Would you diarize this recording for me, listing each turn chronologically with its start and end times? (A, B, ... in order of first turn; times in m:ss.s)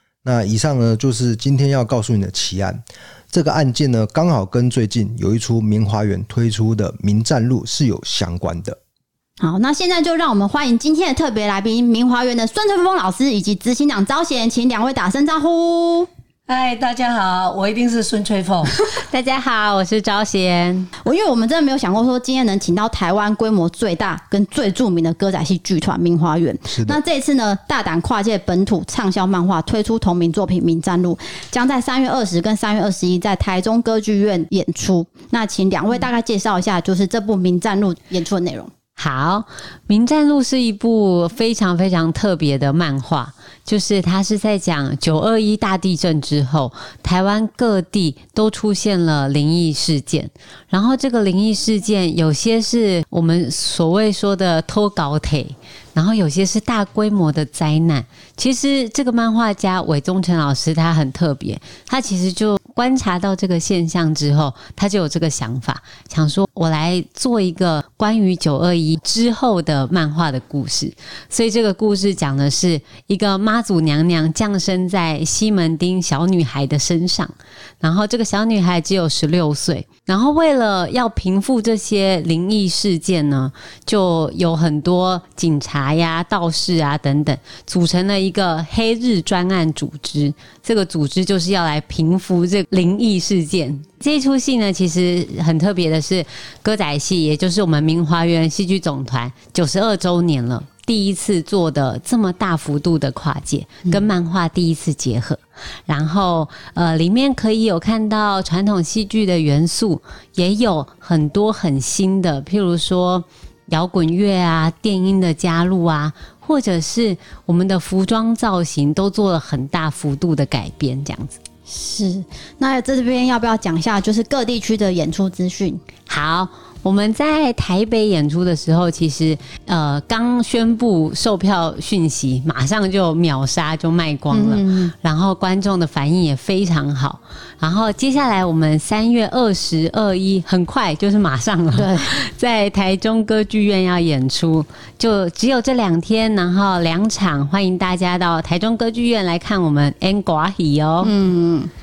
0:00.2-0:08.8 A
0:09.4-0:16.1 B
0:16.5-0:18.7 C
0:18.9-0:20.9 D
0:21.0-0:38.7 B
0:26.7-0:27.0 A
0:39.0-2:01.4 D
2:01.6-2:05.9 B
2:06.1-2:31.1 D
2:14.3-2:14.9 B
2:21.7-2:22.2 B
2:31.0-2:31.7 B